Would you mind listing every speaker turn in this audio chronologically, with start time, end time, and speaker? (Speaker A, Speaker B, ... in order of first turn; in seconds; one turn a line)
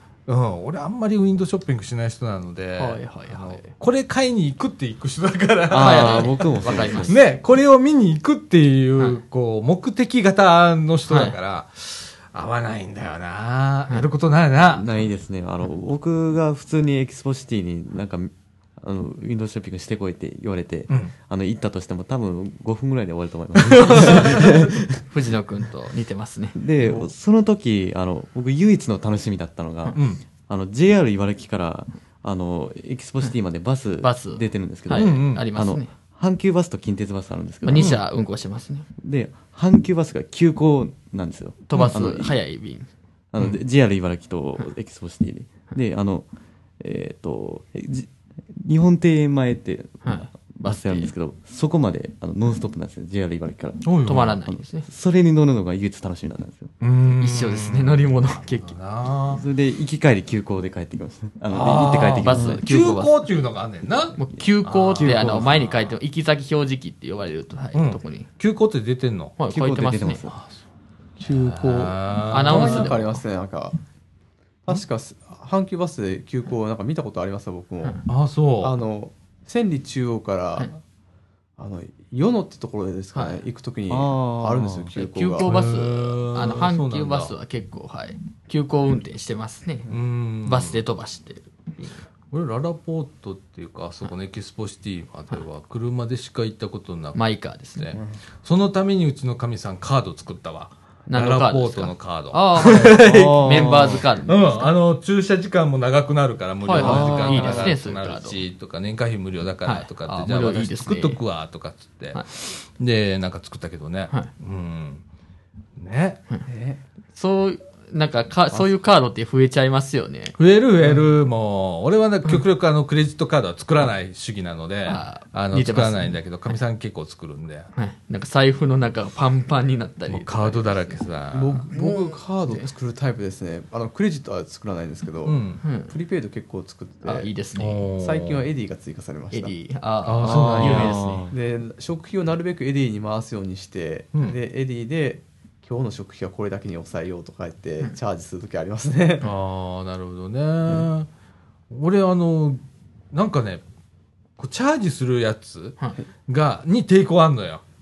Speaker A: 0.3-14.8
Speaker B: 2.8-3.7
Speaker C: 5.7-7.2
Speaker B: 5.7-7.2
Speaker B: 11.1-11.3
Speaker C: 14.7-25.0
Speaker A: 23.6-24.6
Speaker B: 23.9-26.6
Speaker C: 26.5-38.0
Speaker A: 29.9-30.2
Speaker B: 34.0-35.9
Speaker A: 34.9-35.4
Speaker B: 37.6-38.9
Speaker A: 37.7-38.0
Speaker C: 39.0-42.4
Speaker B: 41.7-42.9
Speaker C: 43.3-46.3
Speaker C: 46.8-56.7
Speaker B: 50.0-51.1
Speaker A: 53.8-54.4
Speaker B: 54.0-54.9
Speaker A: 56.8-59.4
Speaker B: 57.1-58.7
Speaker C: 59.3-62.6
Speaker A: 61.5-65.9
Speaker B: 61.9-63.2
Speaker B: 64.2-68.3
Speaker C: 65.0-65.5
Speaker A: 67.7-69.3
Speaker B: 69.4-70.2
Speaker C: 69.5-70.4
Speaker A: 70.3-70.6
Speaker D: 71.2-73.8
Speaker A: 71.3-73.0
Speaker B: 72.3-73.2
Speaker D: 74.6-78.1
Speaker A: 78.1-78.8
Speaker D: 78.6-80.8
Speaker D: 81.6-85.5
Speaker B: 83.1-83.4
Speaker C: 83.9-84.9
Speaker B: 85.0-89.9
Speaker A: 85.4-87.3
Speaker A: 89.9-90.8
Speaker B: 90.4-92.0
Speaker A: 92.3-97.2
Speaker B: 97.1-98.0
Speaker A: 97.8-115.0
Speaker B: 101.1-104.7
Speaker C: 103.0-104.1
Speaker B: 106.6-108.4
Speaker C: 106.7-107.7
Speaker B: 109.6-111.2
Speaker A: 115.8-116.2
Speaker D: 116.5-116.8
Speaker B: 117.1-120.3
Speaker A: 120.4-127.7
Speaker B: 124.8-126.6
Speaker B: 127.7-131.0
Speaker A: 130.1-131.6
Speaker D: 131.3-137.3
Speaker B: 131.7-132.7
Speaker A: 135.2-135.6
Speaker B: 135.6-135.9
Speaker B: 137.0-137.8
Speaker A: 137.6-138.4
Speaker D: 138.0-139.5
Speaker B: 139.3-141.3
Speaker A: 140.0-141.0
Speaker C: 140.2-141.3
Speaker D: 140.3-140.8
Speaker D: 141.3-149.3
Speaker A: 149.2-151.1
Speaker A: 151.7-152.6
Speaker A: 153.1-153.6
Speaker A: 154.4-157.6